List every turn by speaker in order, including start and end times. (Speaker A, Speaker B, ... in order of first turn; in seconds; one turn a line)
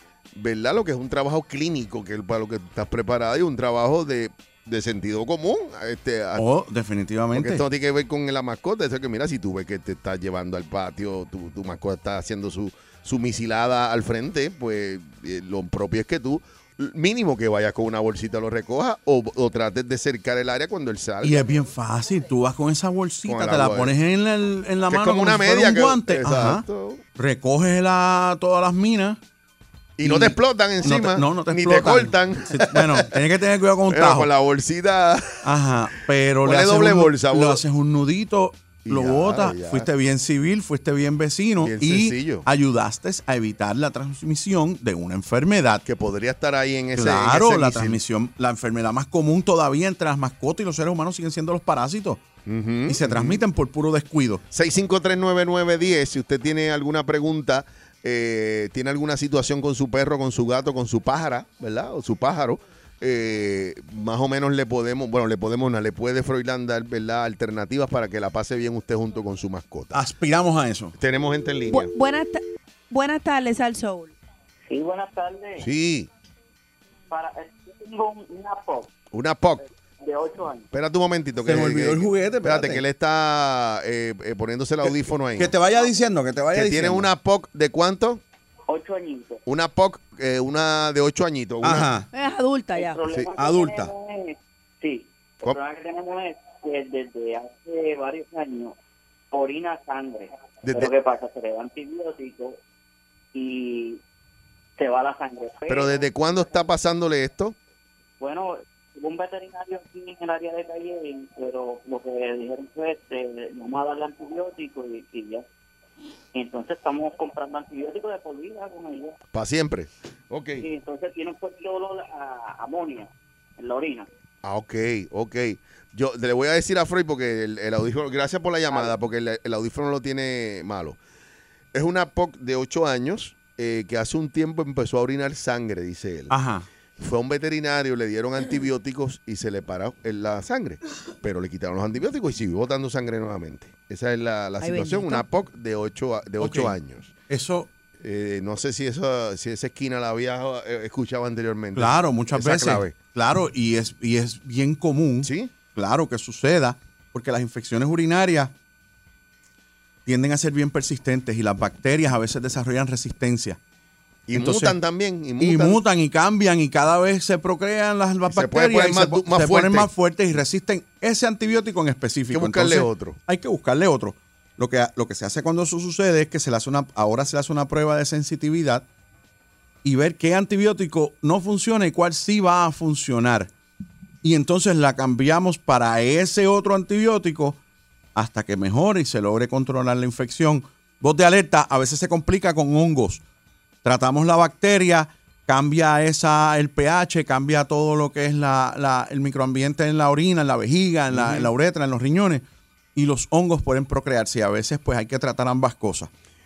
Speaker A: 0.3-6.4
Speaker B: 6.3-7.6
Speaker A: 7.3-21.5
Speaker B: 21.2-29.2
Speaker A: 23.2-24.0
Speaker A: 24.9-27.0
Speaker A: 30.0-33.1
Speaker B: 30.0-34.3
Speaker A: 33.9-35.5
Speaker B: 35.4-45.8
Speaker A: 36.4-37.6
Speaker A: 38.8-39.9
Speaker A: 41.6-42.5
Speaker A: 45.8-48.0
Speaker B: 46.9-52.2
Speaker A: 52.4-53.4
Speaker B: 52.9-54.4
Speaker A: 54.5-70.0
Speaker B: 69.9-70.9
Speaker A: 71.0-71.9
Speaker C: 71.7-74.1
Speaker D: 74.7-75.6
Speaker A: 75.6-76.1
Speaker D: 77.1-78.9
Speaker A: 79.1-79.6
Speaker D: 80.0-80.7
Speaker A: 80.7-85.5
Speaker B: 81.4-82.8
Speaker B: 84.8-87.1
Speaker A: 86.5-88.2
Speaker D: 88.7-89.4
Speaker A: 89.5-91.9
Speaker B: 91.6-92.1
Speaker C: 92.1-93.0
Speaker D: 92.7-98.7
Speaker B: 93.3-93.9
Speaker D: 99.3-102.6
Speaker A: 100.6-100.9
Speaker D: 103.3-104.0
Speaker D: 104.8-106.0
Speaker A: 105.7-107.5
Speaker D: 108.2-115.4
Speaker D: 116.3-119.1
Speaker A: 119.3-120.7
Speaker D: 120.6-124.0
Speaker A: 124.4-131.0
Speaker A: 131.7-136.3
Speaker B: 136.3-136.7
Speaker A: 137.0-147.1
Speaker C: 144.6-145.2
Speaker B: 146.4-146.7
Speaker B: 147.3-147.7
Speaker A: 148.0-152.9
Speaker B: 151.7-158.5
Speaker A: 155.2-155.5
Speaker B: 160.1-163.6
Speaker A: 164.3-165.8
Speaker B: 164.3-164.8
Speaker B: 165.4-178.8
Speaker A: 168.3-169.9
Speaker A: 172.3-173.2
Speaker B: 179.8-183.5
Speaker B: 184.2-187.6
Speaker B: 188.1-193.2
Speaker B: 193.8-202.4
Speaker A: 201.1-201.5
Speaker B: 202.9-206.1